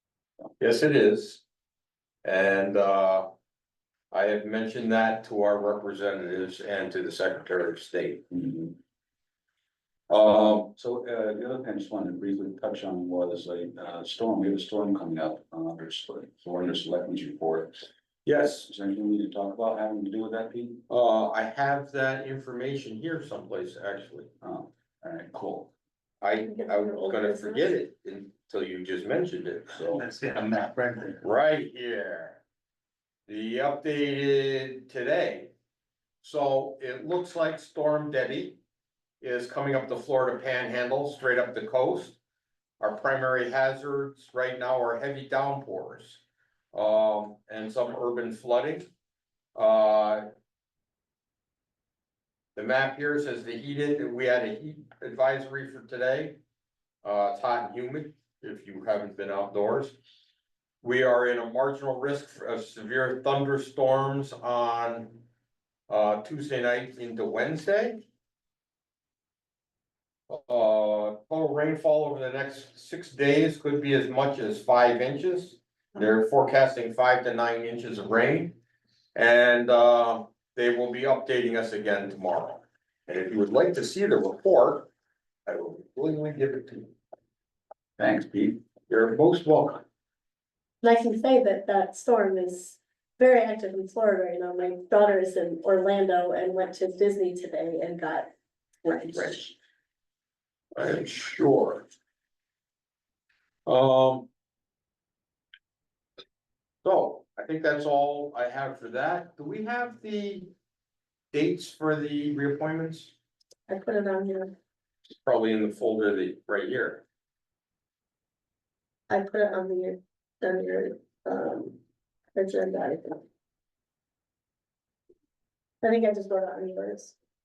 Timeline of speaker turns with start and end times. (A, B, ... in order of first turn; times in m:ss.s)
0:00.6-0:01.4 A
0:02.2-0:03.3 A
0:04.1-0:08.2 A
0:08.3-0:08.8 B
0:10.1-0:10.7 A
0:10.7-0:17.9 B
0:18.2-0:18.7 A
0:18.6-0:20.8 B
0:20.9-0:24.3 A
0:24.4-0:25.7 B
0:26.2-0:30.1 A
0:26.4-0:27.7 C
0:30.0-0:31.2 B
0:31.2-0:32.4 A
0:33.3-0:35.5 A
0:36.2-0:38.6 A
0:39.2-0:42.2 A
0:42.8-0:48.8 A
0:49.5-0:50.3 A
0:52.6-0:56.4 A
0:57.0-0:59.9 A
1:00.8-1:05.2 A
1:05.9-1:08.0 A
1:10.3-1:18.6 A
1:19.1-1:24.9 A
1:25.5-1:26.9 A
1:28.0-1:28.6 B
1:28.9-1:29.8 A
1:30.8-1:38.3 C
1:38.8-1:39.5 C
1:40.7-1:41.8 A
1:43.7-1:44.3 A
1:46.8-1:50.5 A
1:51.3-1:53.1 A
1:53.7-1:54.5 C
1:55.2-1:57.0 A
1:59.1-2:01.8 C
2:02.3-2:03.2 C
2:05.8-2:07.2 C